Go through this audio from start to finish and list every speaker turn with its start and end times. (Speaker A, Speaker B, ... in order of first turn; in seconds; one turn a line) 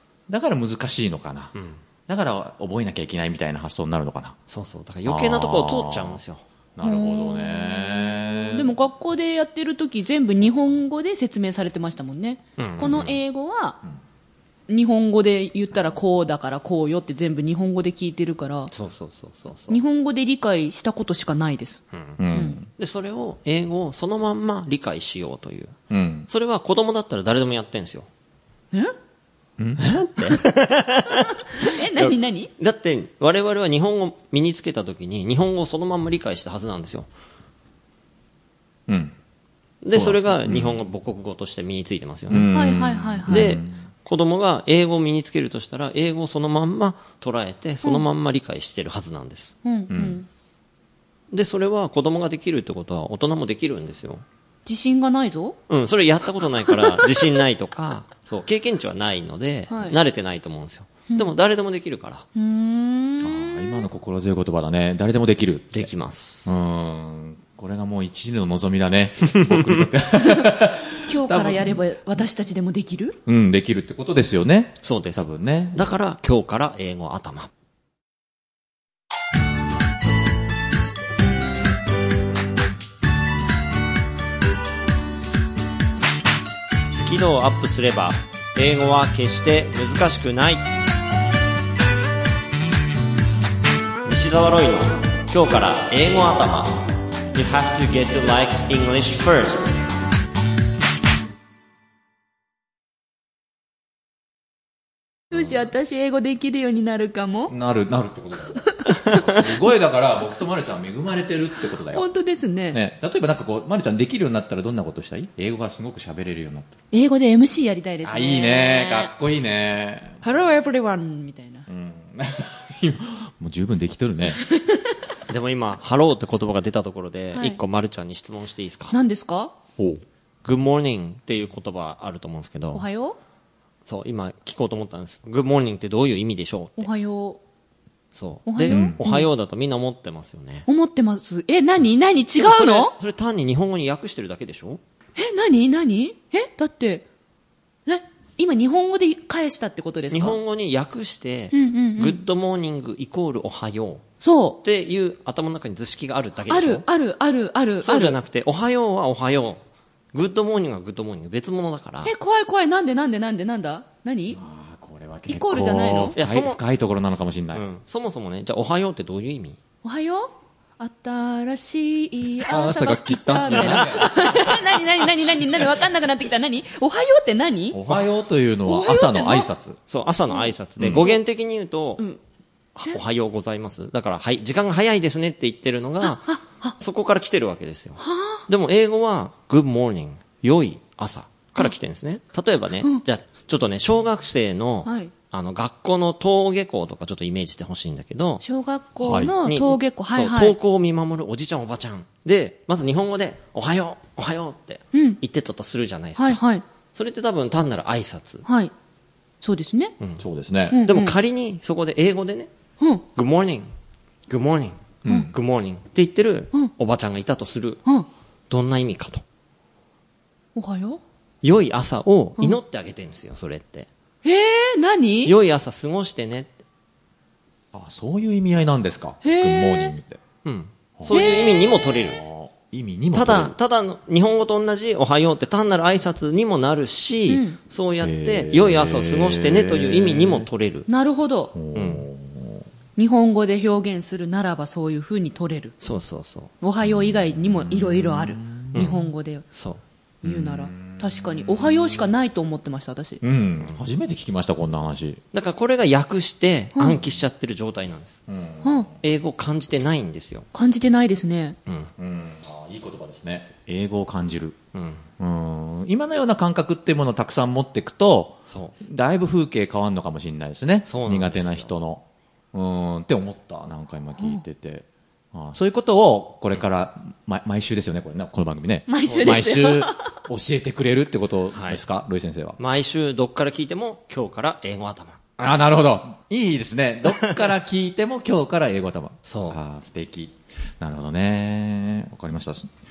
Speaker A: 0.3-1.5
Speaker B: 1.5-1.8
Speaker A: 2.1-4.4
Speaker B: 4.5-6.4
Speaker A: 5.0-6.2
Speaker A: 6.8-8.7
Speaker C: 6.8-13.8
Speaker B: 12.6-13.2
Speaker C: 14.7-18.7
Speaker B: 18.7-19.8
Speaker C: 19.7-22.6
Speaker B: 21.9-22.2
Speaker A: 22.2-22.7
Speaker B: 22.8-25.8
Speaker A: 25.9-26.3
Speaker B: 26.3-28.1
Speaker A: 29.6-30.4
Speaker B: 29.8-37.1
Speaker C: 31.1-32.5
Speaker A: 38.9-39.1
Speaker B: 39.8-42.5
Speaker A: 39.9-40.8
Speaker A: 42.3-43.8
Speaker C: 42.5-43.5
Speaker B: 43.3-49.5
Speaker C: 49.6-50.3
Speaker A: 49.9-50.2
Speaker B: 51.3-54.2
Speaker C: 54.6-55.6
Speaker B: 55.7-62.3
Speaker C: 56.7-57.2
Speaker C: 59.7-60.0
Speaker C: 62.3-63.8
Speaker A: 63.2-65.9
Speaker B: 65.7-66.5
Speaker A: 66.5-71.8
Speaker B: 69.4-69.6
Speaker C: 70.2-73.2
Speaker A: 73.2-75.9
Speaker B: 74.8-77.5
Speaker B: 86.9-90.6
Speaker B: 94.0-99.8
Speaker C: 105.3-107.5
Speaker A: 107.5-112.0
Speaker C: 108.6-109.3
Speaker C: 111.9-112.8
Speaker A: 112.7-116.8
Speaker C: 116.9-119.1
Speaker A: 118.0-120.2
Speaker C: 120.2-121.7
Speaker A: 121.7-124.4
Speaker C: 124.5-124.9
Speaker B: 125.3-128.9
Speaker C: 127.3-127.6
Speaker C: 128.9-129.5
Speaker B: 130.4-132.8
Speaker C: 132.7-133.2
Speaker B: 133.8-136.9
Speaker C: 136.8-137.4
Speaker B: 138.1-140.7
Speaker C: 138.5-139.3
Speaker A: 138.7-139.0
Speaker C: 140.7-142.9
Speaker B: 142.4-144.8
Speaker C: 145.2-147.0
Speaker C: 147.8-150.4
Speaker B: 150.1-154.0
Speaker C: 151.5-152.2
Speaker C: 154.2-154.6
Speaker B: 154.6-156.8
Speaker C: 156.5-158.2
Speaker B: 157.8-159.6
Speaker B: 160.1-162.1
Speaker C: 162.0-164.4
Speaker A: 164.3-167.6
Speaker C: 165.3-166.2
Speaker B: 166.1-166.6
Speaker B: 167.5-169.6
Speaker C: 169.8-178.0
Speaker A: 172.4-174.6
Speaker A: 177.7-179.8
Speaker C: 178.7-179.5
Speaker B: 179.9-182.0
Speaker B: 182.8-186.3
Speaker C: 186.0-186.8
Speaker B: 186.8-198.4
Speaker C: 188.0-188.4
Speaker C: 194.8-195.1
Speaker C: 198.4-200.6
Speaker A: 199.0-199.3
Speaker B: 199.4-206.4
Speaker C: 204.9-205.2
Speaker C: 206.2-206.6
Speaker B: 206.9-208.4
Speaker C: 208.4-208.7
Speaker C: 209.4-209.9
Speaker A: 210.2-210.8
Speaker C: 210.7-211.2
Speaker B: 210.8-212.5
Speaker B: 213.1-213.7
Speaker B: 214.3-217.8
Speaker A: 215.0-215.3
Speaker B: 218.5-219.2
Speaker C: 220.5-221.0
Speaker B: 221.4-223.9
Speaker C: 224.2-225.3
Speaker B: 225.2-226.6
Speaker A: 227.7-230.2
Speaker C: 229.2-229.9
Speaker B: 230.4-232.2
Speaker A: 231.0-231.2
Speaker C: 231.1-231.7
Speaker A: 232.1-233.5
Speaker B: 233.1-240.9
Speaker C: 237.3-237.6
Speaker A: 238.0-240.5
Speaker C: 240.9-241.5
Speaker A: 241.5-242.6
Speaker B: 241.7-242.1
Speaker C: 243.0-245.7
Speaker B: 245.8-246.5
Speaker C: 246.6-249.4
Speaker A: 246.8-249.0
Speaker B: 248.7-249.0
Speaker B: 249.5-249.8
Speaker C: 250.2-253.2
Speaker A: 250.2-252.0
Speaker A: 253.2-255.2
Speaker B: 255.3-258.2
Speaker A: 258.3-258.9
Speaker C: 258.6-258.9
Speaker B: 259.0-260.4
Speaker C: 260.5-261.6
Speaker B: 261.6-261.9
Speaker A: 262.0-264.6
Speaker B: 264.7-265.1
Speaker A: 265.2-282.6
Speaker B: 268.5-268.8
Speaker B: 270.9-271.7
Speaker C: 278.9-280.1
Speaker B: 279.1-279.4
Speaker B: 281.5-281.8
Speaker B: 282.6-285.3
Speaker A: 285.4-292.7
Speaker B: 289.2-289.6